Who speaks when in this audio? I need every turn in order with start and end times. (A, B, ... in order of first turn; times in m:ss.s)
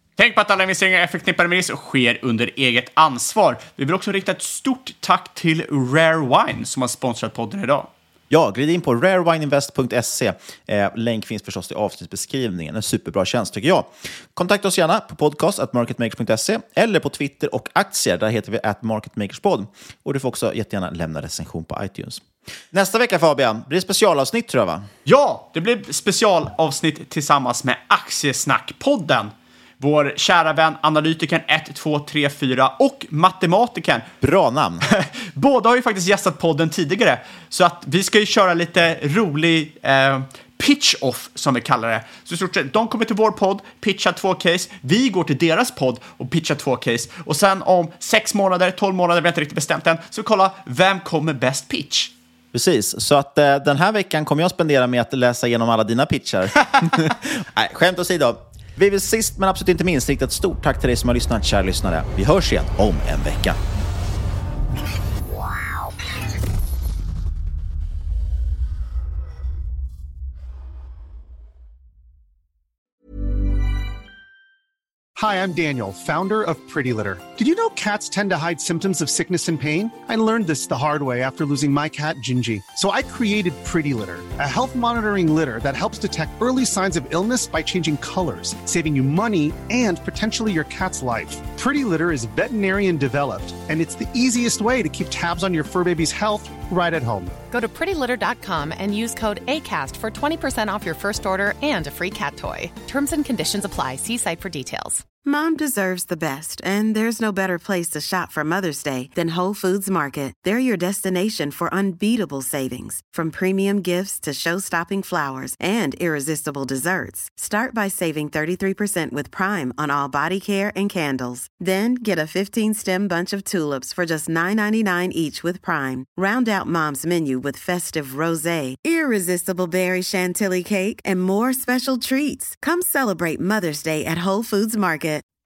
0:00.2-0:07.9 A
0:08.3-0:24.9 B
0:25.0-0:34.1 A
0:34.2-0:34.8 B
0:34.9-0:52.1 A
0:52.5-1:03.6 B
1:15.2-1:37.3 C
1:37.5-1:45.0 D
1:45.2-2:15.2 E